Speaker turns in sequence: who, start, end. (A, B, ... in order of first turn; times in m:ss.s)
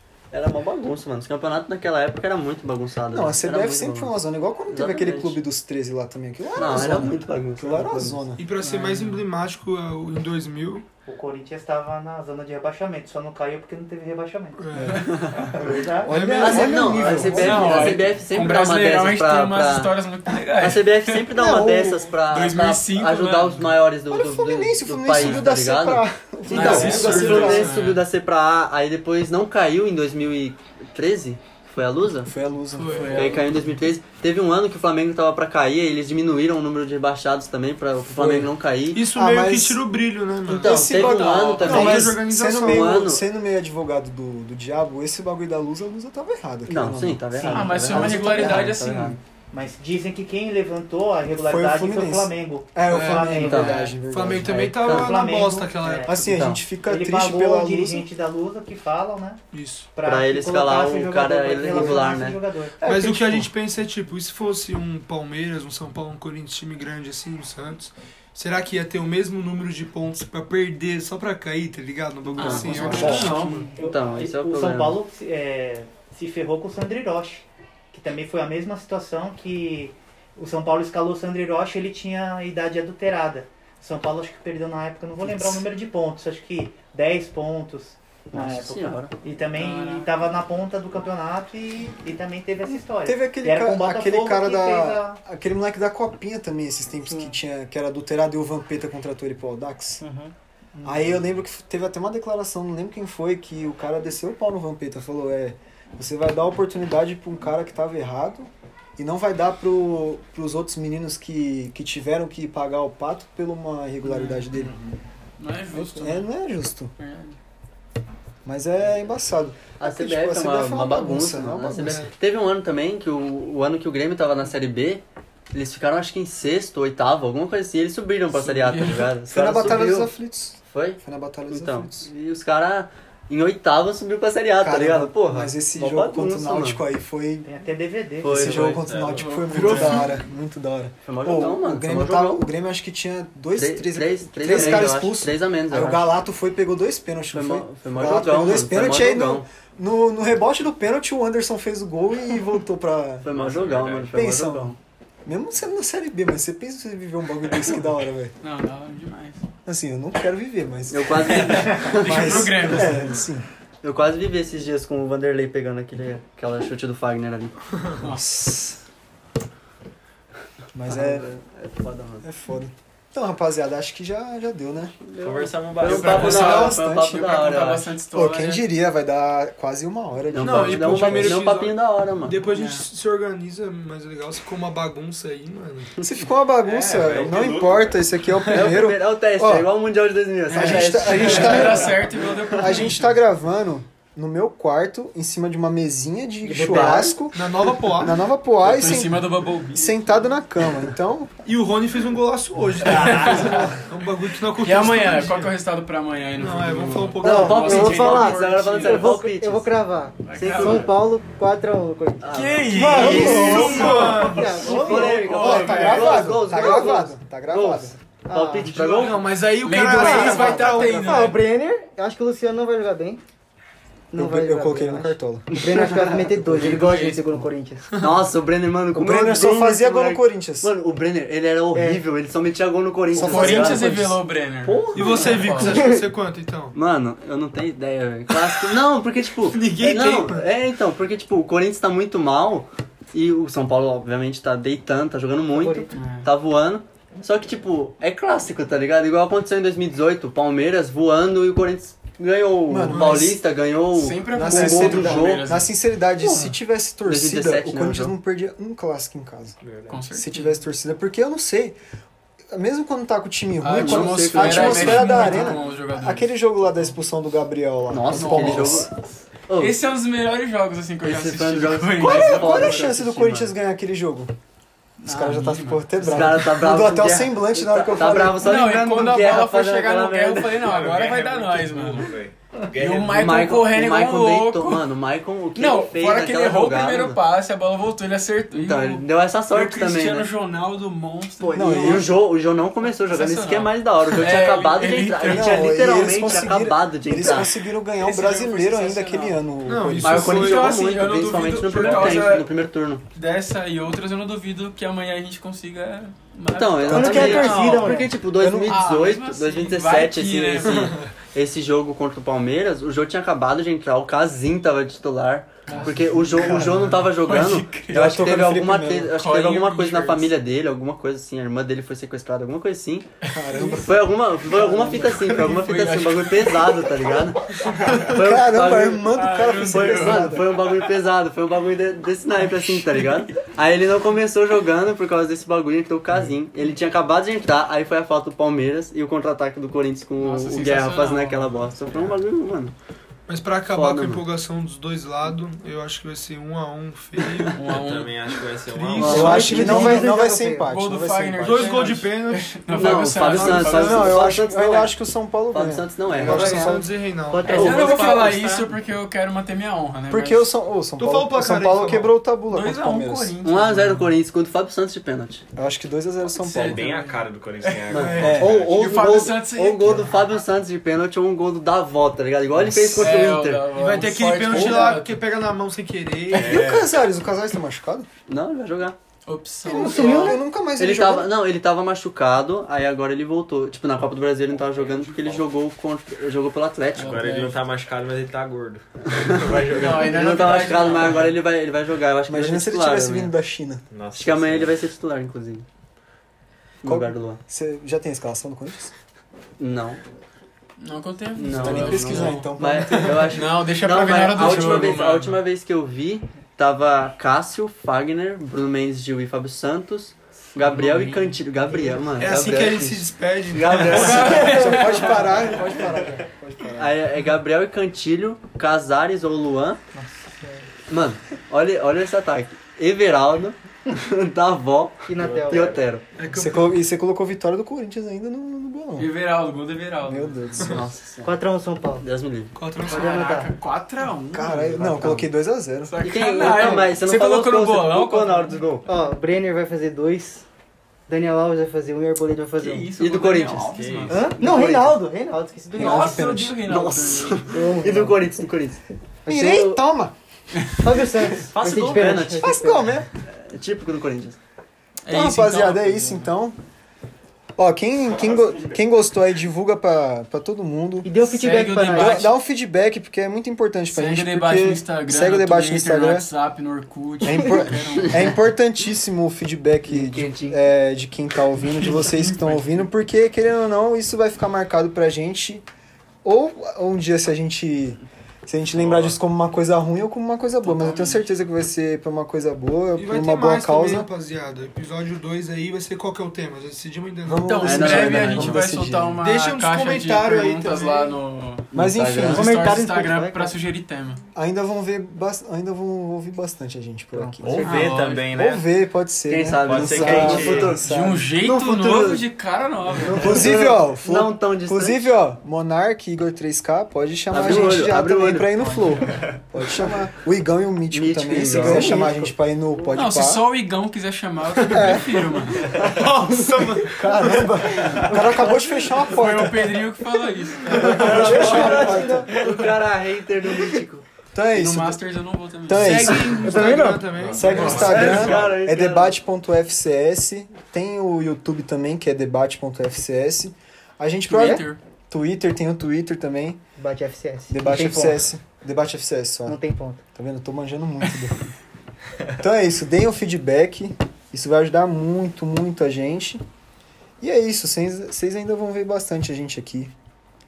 0:00.3-0:04.2 A
0:03.1-0:08.4 B
0:04.7-0:05.4 A
0:06.5-0:08.3 A
0:08.3-0:10.8 C
0:08.6-0:09.2 D
0:11.0-0:16.2 E
0:14.6-0:15.0 C
0:14.7-0:15.1 B
0:16.0-0:17.6 C
0:16.0-0:18.0 B
0:16.3-0:20.0 A
0:17.3-0:21.3 D
0:20.5-0:32.3 A
0:21.3-0:22.1 B
0:22.3-0:23.8 D
0:24.1-0:27.7 B
0:25.1-0:25.4 D
0:26.5-0:28.0 D
0:26.5-0:27.7 F
0:26.6-0:27.7 C
0:32.2-0:33.3 B
0:32.7-0:33.4 C
0:32.9-0:33.7 D
0:33.1-0:39.1 A
0:38.1-0:38.5 B
0:38.9-0:41.0 C
0:39.1-0:39.8 B
0:40.4-0:43.2 A
0:40.5-0:47.2 B
0:40.8-0:41.9 D
0:41.6-0:43.0 C
0:46.7-0:49.2 A
0:47.3-0:48.2 E
0:47.4-0:49.2 D
0:47.9-0:48.7 B
0:49.5-0:54.0 E
0:51.4-0:54.7 B
0:52.8-0:53.4 C
0:53.3-0:53.9 A
0:53.9-0:56.2 C
0:54.4-0:55.3 A
0:54.5-0:59.4 E
0:56.0-0:58.1 B
0:56.2-0:56.7 A
0:59.5-0:59.9 C
0:59.9-1:02.8 E
1:00.0-1:02.4 A
1:01.7-1:02.2 B
1:02.8-1:03.5 B
1:02.8-1:13.7 C
1:12.3-1:15.0 A
1:12.4-1:13.7 D
1:12.8-1:13.5 B
1:13.1-1:35.2 E
1:25.2-1:25.6 B
1:28.3-1:29.1 A
1:29.5-1:30.4 D
1:33.0-1:40.0 B
1:40.0-1:41.1 G
1:40.8-1:54.8 B
1:54.0-1:54.7 D
1:55.4-1:56.3 D
1:55.7-1:56.9 B
1:57.0-1:57.4 D
1:58.4-2:02.1 B
1:59.8-2:10.1 A
2:01.8-2:02.1 C
2:08.6-2:09.1 D
2:09.3-2:12.1 B
2:10.7-2:16.8 A
2:14.6-2:17.5 B
2:17.4-2:18.8 E
2:18.2-2:19.2 A
2:18.3-2:33.3 B
2:18.7-2:19.4 F
2:19.1-2:20.2 D
2:19.6-2:19.9 C
2:21.0-2:22.5 A
2:23.5-2:26.1 A
2:27.3-2:29.4 A
2:33.2-2:34.8 A
2:33.3-2:34.1 F
2:34.1-2:38.3 B
2:38.4-2:39.4 D
2:39.6-2:43.4 B
2:40.9-2:42.7 A
2:41.5-2:43.2 D
2:43.8-2:47.6 A
2:48.1-2:48.8 B
2:50.7-2:51.2 B
2:50.9-2:52.2 A
2:52.2-2:54.9 B
2:55.0-2:58.0 A
2:55.2-2:56.6 F
2:55.8-2:58.7 D
2:56.2-2:57.4 B
2:58.1-3:01.5 B
3:00.3-3:02.5 A
3:00.4-3:05.9 C
3:02.5-3:02.8 D
3:06.0-3:09.7 B
3:06.6-3:08.0 F
3:08.5-3:12.7 A
3:10.5-3:13.1 D
3:10.5-3:19.2 B
3:16.4-3:17.2 G
3:16.6-3:17.1 A
3:17.3-3:18.2 C
3:18.6-3:20.2 D
3:19.7-3:21.3 B
3:21.4-3:25.5 C
3:22.8-3:23.8 D
3:23.1-3:23.7 F
3:24.5-3:29.1 D
3:26.4-3:27.8 C
3:27.2-3:37.1 G
3:27.3-3:29.7 A
3:30.2-3:31.0 D
3:30.4-3:30.9 A
3:32.2-3:33.4 A
3:32.3-3:36.2 D
3:32.9-3:34.0 B
3:32.9-3:34.7 C
3:34.6-3:39.4 A
3:35.3-3:38.0 B
3:38.2-3:38.7 G
3:38.6-3:41.4 C
3:38.7-3:41.4 D
3:39.9-3:43.2 G
3:40.2-3:40.5 A
3:44.1-3:47.9 G
3:44.1-3:45.5 B
3:46.5-3:47.4 D
3:46.5-3:46.9 A
3:48.0-3:53.9 A
3:48.9-3:50.7 B
3:51.7-3:52.0 G
3:53.1-3:54.2 B
3:53.2-3:55.9 D
3:54.6-3:55.9 A
3:54.9-3:56.8 C
3:56.7-4:15.5 A
3:59.5-4:00.5 C
4:05.5-4:05.9 G
4:05.9-4:06.3 D
4:12.7-4:13.4 B
4:12.9-4:13.3 C
4:13.9-4:15.7 D
4:14.3-4:19.6 B
4:17.0-4:18.1 A
4:19.6-4:20.0 F
4:19.9-4:20.6 D
4:20.1-4:21.8 B
4:22.5-4:28.9 B
4:23.6-4:26.9 D
4:23.7-4:25.6 A
4:27.9-4:28.9 A
4:28.1-4:29.0 D
4:29.5-4:29.8 A
4:29.6-4:32.9 D
4:31.0-4:33.5 A
4:32.0-4:34.3 B
4:35.0-4:36.6 D
4:35.0-4:38.6 B
4:36.0-4:40.8 A
4:38.2-4:42.2 D
4:40.6-4:43.4 F
4:42.8-4:44.8 D
4:43.1-4:47.2 A
4:45.5-4:52.2 D
4:48.5-4:50.3 A
4:51.4-4:57.6 A
4:51.5-4:52.2 B
4:53.0-4:55.8 D
4:55.2-5:00.4 B
4:58.0-4:59.4 D
4:59.6-5:00.8 C
5:00.0-5:03.0 A
5:00.2-5:02.5 D
5:03.1-5:08.1 D
5:06.5-5:23.1 A
5:06.9-5:08.8 B
5:06.9-5:08.1 G
5:08.6-5:11.0 D
5:10.6-5:11.1 C
5:15.7-5:20.3 D
5:17.9-5:19.2 B
5:23.2-5:23.9 D
5:23.3-5:24.1 B
5:23.6-5:42.7 A
5:24.5-5:28.2 D
5:28.1-5:30.6 B
5:28.9-5:30.5 D
5:32.6-5:33.4 D
5:40.2-5:42.0 D
5:43.3-5:47.6 C
5:43.7-5:44.2 A
5:47.2-5:47.5 A
5:47.5-5:48.2 D
5:47.6-5:50.0 F
5:48.9-5:50.1 A
5:49.0-5:50.7 G
5:49.0-5:52.0 B
5:49.1-5:50.0 D
5:50.6-5:54.1 D
5:51.4-5:54.2 C
5:52.7-5:54.9 A
5:53.7-5:56.9 B
5:54.1-5:54.8 G
5:55.5-5:56.8 A
5:56.2-5:58.7 C
5:56.3-5:56.7 G
5:57.3-5:58.2 G
5:57.4-6:00.5 D
5:57.5-5:58.2 A
6:00.1-6:03.4 B
6:01.0-6:02.1 C
6:02.5-6:04.2 D
6:03.4-6:05.4 A
6:05.5-6:06.9 B
6:06.4-6:07.8 D
6:06.4-6:09.0 F
6:07.9-6:13.8 A
6:07.9-6:08.4 C
6:08.2-6:08.5 B
6:08.6-6:10.3 D
6:12.7-6:13.1 B
6:12.9-6:15.2 D
6:13.7-6:16.7 C
6:14.5-6:15.0 B
6:16.3-6:16.9 F
6:16.3-6:18.1 B
6:18.3-6:19.0 A
6:19.2-6:20.3 D
6:19.6-6:21.3 B
6:19.7-6:27.3 A
6:19.7-6:20.4 G
6:24.5-6:25.5 F
6:26.9-6:27.6 D
6:27.0-6:30.7 F
6:29.1-6:33.3 A
6:29.7-6:31.4 D
6:32.3-6:33.8 B
6:33.9-6:34.8 F
6:34.1-6:35.6 A
6:36.8-6:37.4 A
6:36.8-6:38.9 B
6:39.6-6:40.0 A
6:40.8-6:42.5 D
6:41.4-6:55.0 A
6:41.5-6:43.4 B
6:43.1-6:45.4 D
6:50.6-6:51.4 D
6:52.2-6:54.4 C
6:53.8-6:55.8 D
6:54.1-6:57.0 B
6:55.6-6:56.1 G
6:56.7-6:59.8 A
6:59.9-7:00.7 G
7:00.9-7:06.0 A
7:05.1-7:05.8 G
7:05.1-7:05.9 F
7:06.2-7:06.8 C
7:06.3-7:09.1 B
7:09.0-7:10.4 D
7:10.0-7:10.8 B
7:10.6-7:11.4 A
7:11.2-7:12.0 G
7:12.0-7:12.5 A
7:12.5-7:13.3 C
7:12.8-7:13.5 G
7:12.8-7:15.2 D
7:14.3-7:15.9 B
7:14.8-7:15.2 A
7:15.9-7:18.6 D
7:16.0-7:18.8 A
7:16.4-7:16.8 G
7:18.8-7:20.4 G
7:21.1-7:22.9 G
7:22.6-7:24.3 D
7:23.0-7:25.0 A
7:23.6-7:24.3 F
7:24.1-7:26.2 G
7:25.7-7:26.6 B
7:25.8-7:27.7 D
7:26.6-7:29.7 A
7:27.5-7:28.2 G
7:29.2-7:29.7 G
7:29.2-7:30.1 B
7:30.8-7:33.0 G
7:31.5-7:32.4 F
7:31.5-7:32.6 A
7:32.4-7:33.1 B
7:33.3-7:34.4 A
7:35.0-7:36.3 D
7:35.1-7:36.6 B
7:37.6-7:41.1 B
7:38.2-7:38.8 F
7:41.0-7:42.3 G
7:41.2-7:42.3 D
7:41.9-7:46.3 B
7:43.9-7:48.4 D
7:47.2-7:55.6 B
7:49.9-7:50.6 A
7:51.6-7:52.8 D
7:56.2-8:04.1 B
7:58.7-7:59.2 F
8:00.6-8:01.2 D
8:03.0-8:08.2 C
8:07.2-8:09.2 B
8:07.4-8:14.2 D
8:07.6-8:08.7 A
8:09.2-8:11.2 C
8:11.7-8:12.6 A
8:11.7-8:12.7 B
8:12.2-8:13.6 G
8:14.3-8:17.6 B
8:17.1-8:18.0 G
8:17.4-8:18.6 F
8:17.5-8:18.3 D
8:18.3-8:21.3 B
8:19.3-8:22.2 A
8:19.6-8:20.8 F
8:20.8-8:23.5 D
8:23.0-8:25.1 A
8:23.2-8:33.5 B
8:27.3-8:28.6 A
8:30.9-8:32.2 A
8:31.4-8:32.2 G
8:32.9-8:35.7 D
8:34.6-8:35.3 B
8:35.6-8:36.1 F
8:35.8-8:37.6 C
8:36.9-8:39.8 B
8:37.8-8:38.3 F
8:39.0-8:41.7 D
8:40.7-8:41.8 C
8:40.8-8:42.3 B
8:40.8-8:44.0 A
8:42.3-8:42.7 C
8:44.3-8:45.0 B
8:44.5-8:46.5 D
8:45.7-8:56.6 B
8:45.7-8:48.4 C
8:47.1-8:48.5 F
8:47.4-8:48.2 D
8:47.8-8:49.2 A
8:54.3-8:54.8 D
8:54.3-8:54.6 G
8:56.8-8:58.2 G
8:57.5-8:59.6 B
8:59.5-9:00.0 G
9:00.1-9:01.4 B
9:02.4-9:06.4 B
9:07.2-9:09.9 B